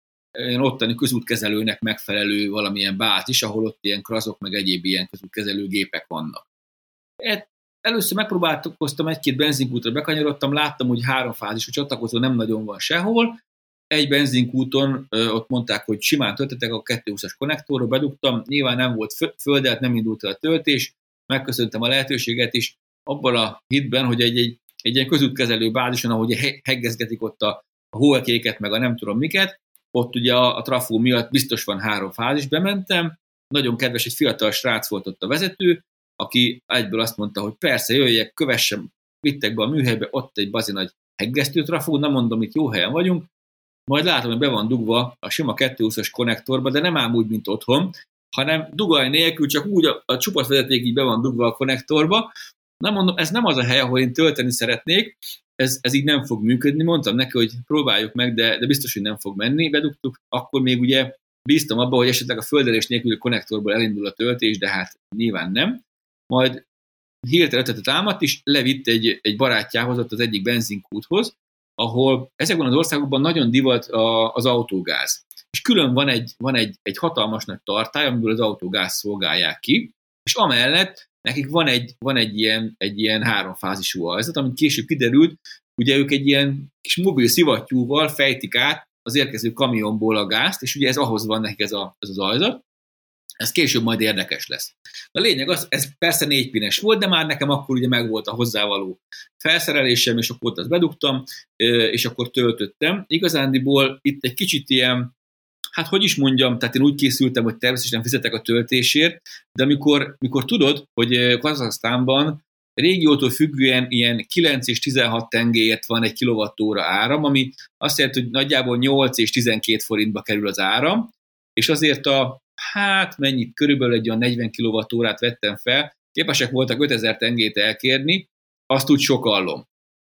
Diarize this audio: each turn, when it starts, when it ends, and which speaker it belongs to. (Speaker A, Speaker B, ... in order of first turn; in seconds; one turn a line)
Speaker A: 0.4-6.5
Speaker A: 7.2-13.4
Speaker A: 13.9-43.3
Speaker A: 43.9-52.3
Speaker A: 52.8-66.6
Speaker A: 67.2-92.6
Speaker A: 93.4-105.1
Speaker A: 105.8-129.6